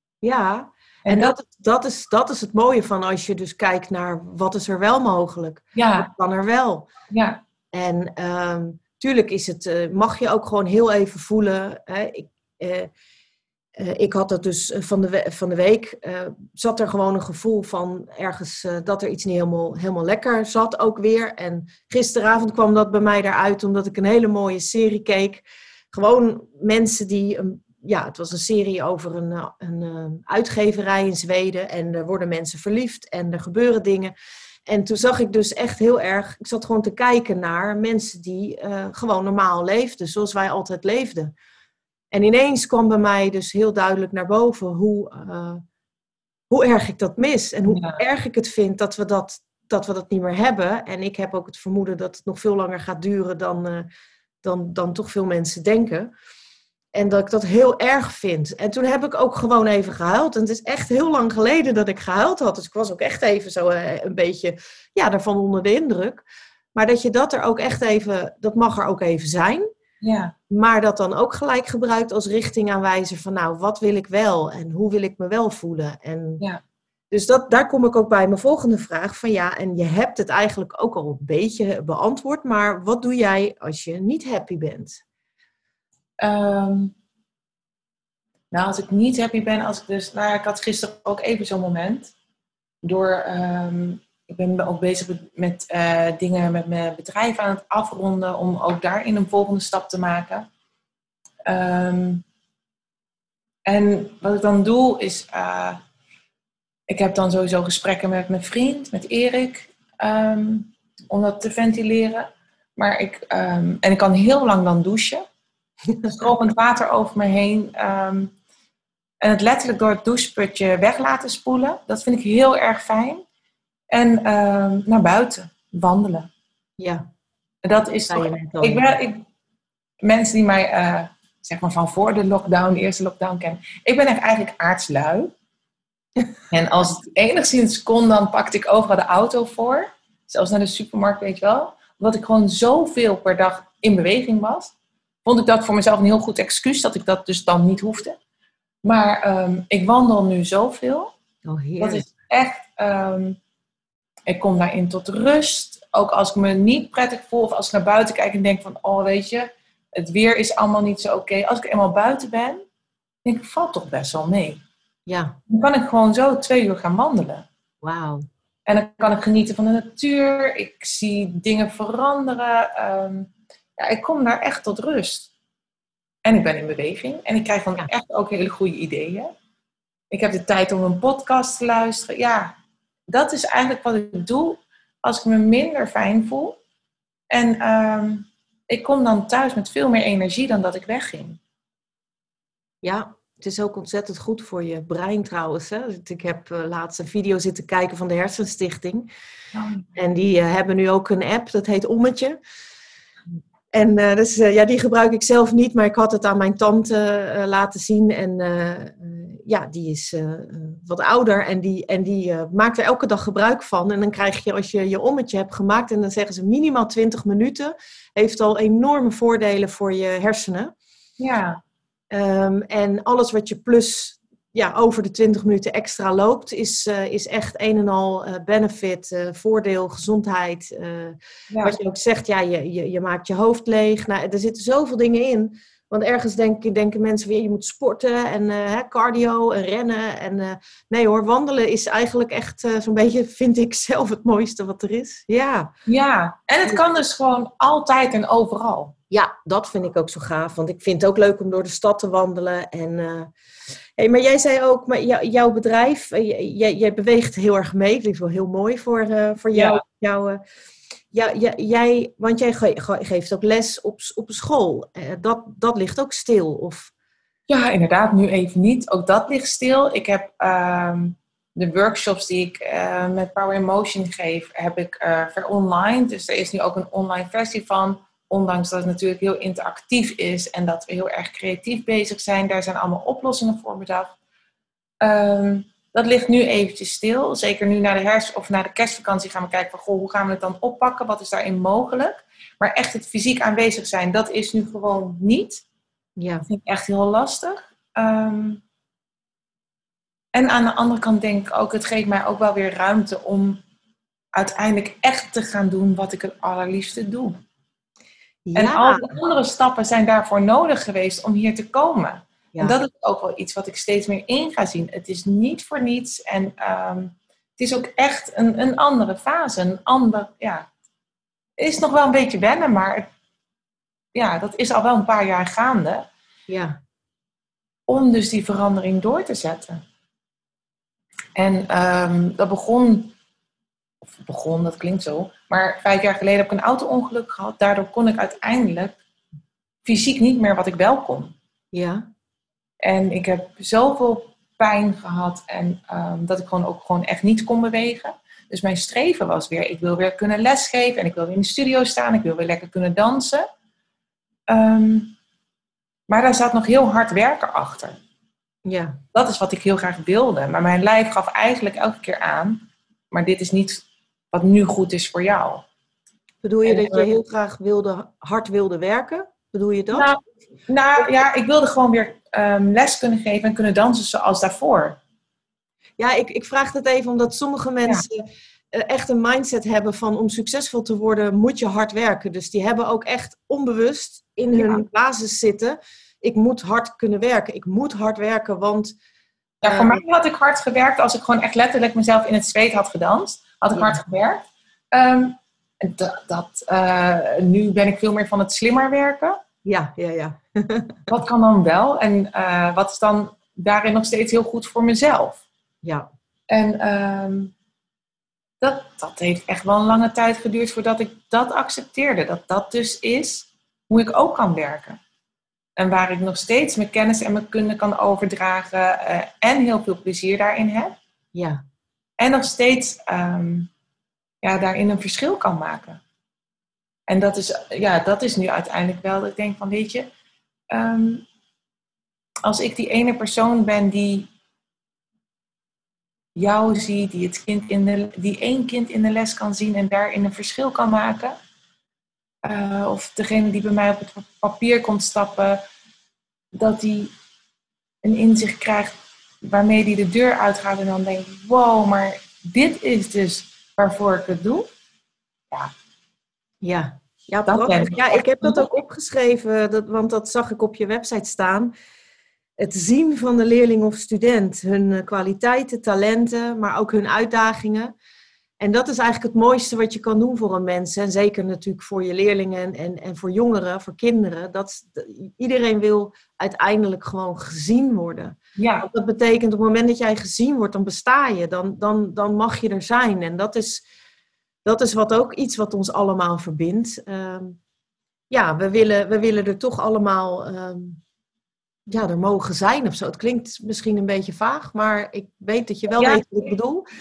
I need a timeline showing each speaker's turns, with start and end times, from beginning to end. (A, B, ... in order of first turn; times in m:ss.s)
0:00.2-0:06.9 A
0:01.0-0:01.4 B
0:05.8-0:06.1 B
0:07.1-0:07.4 B
0:07.7-0:12.9 A
0:13.8-0:34.1 A
0:34.7-0:41.3 A
0:42.1-0:45.6 A
0:46.5-0:53.9 A
0:47.7-0:48.0 B
0:54.4-0:56.1 A
0:56.9-1:06.2 A
1:06.7-1:09.7 A
1:10.0-1:10.3 B
1:10.5-1:16.4 A
1:17.1-1:25.0 A
1:26.2-1:26.9 B
1:28.5-1:32.1 B
1:32.8-1:40.5 B
1:41.5-1:42.2 B
1:43.6-1:45.8 B
1:46.9-1:55.2 B
1:56.0-1:58.3 B
1:59.2-2:03.2 B
2:03.9-2:06.3 B
2:06.8-2:07.0 A
2:07.6-2:09.2 B
2:08.1-2:08.9 A
2:10.0-2:15.3 B
2:16.5-2:24.7 B
2:25.2-2:28.2 B
2:28.8-2:31.1 B
2:31.4-2:32.1 A
2:31.8-2:33.4 B
2:34.3-2:42.6 B
2:43.2-2:44.6 B
2:45.1-2:45.4 A
2:45.5-2:47.4 B
2:47.8-2:48.3 A
2:48.7-2:55.3 B
2:56.2-2:59.3 B
3:00.1-3:02.5 B
3:03.1-3:06.6 B
3:07.3-3:11.4 B
3:12.8-3:19.1 A
3:19.5-3:19.9 B
3:20.0-3:22.4 A
3:23.7-3:40.7 A
3:41.2-3:41.6 B
3:42.1-4:05.7 A
3:51.5-3:51.8 B
4:05.9-4:08.9 B
4:09.1-4:13.3 A
4:14.0-4:20.4 A
4:19.5-4:19.8 B
4:21.1-4:26.9 A
4:27.5-4:44.1 B
4:45.0-4:55.6 B
4:56.2-4:56.5 A
4:56.5-4:58.6 B
5:00.3-5:03.6 B
5:04.3-5:07.4 B
5:08.5-5:09.1 A
5:08.5-5:20.7 B
5:21.6-5:23.1 B
5:24.1-5:26.0 B
5:26.5-5:26.8 A
5:27.9-5:29.8 B
5:31.4-5:33.1 B
5:34.2-5:39.0 B
5:39.8-5:41.3 B
5:41.7-5:42.0 A
5:42.8-5:53.4 B
5:54.5-5:55.1 B
5:56.1-5:58.0 B
5:58.6-5:59.0 A
5:59.1-6:05.6 B
6:06.4-6:10.1 A
6:06.6-6:07.1 B
6:09.9-6:15.0 B
6:16.0-6:28.9 A
6:29.6-6:39.4 B
6:29.6-6:30.0 A
6:33.7-6:34.0 A
6:39.6-6:41.0 A
6:41.1-6:45.4 B
6:46.5-6:47.5 B
6:48.6-6:55.0 B
6:55.8-7:01.0 B
7:01.3-7:01.6 A
7:02.2-7:03.7 B
7:04.4-7:06.0 B
7:07.1-7:10.1 B
7:10.7-7:11.2 B
7:12.4-7:14.3 B
7:16.4-7:21.4 B
7:22.4-7:25.6 B
7:26.5-7:27.1 B
7:28.0-7:34.7 B
7:36.6-7:41.7 A
7:37.5-7:38.7 B
7:42.6-7:47.9 A
7:48.6-8:03.8 A
7:58.6-7:58.9 B
8:04.6-8:07.6 A
8:08.3-8:11.0 A
8:11.9-8:16.8 A
8:16.0-8:16.2 B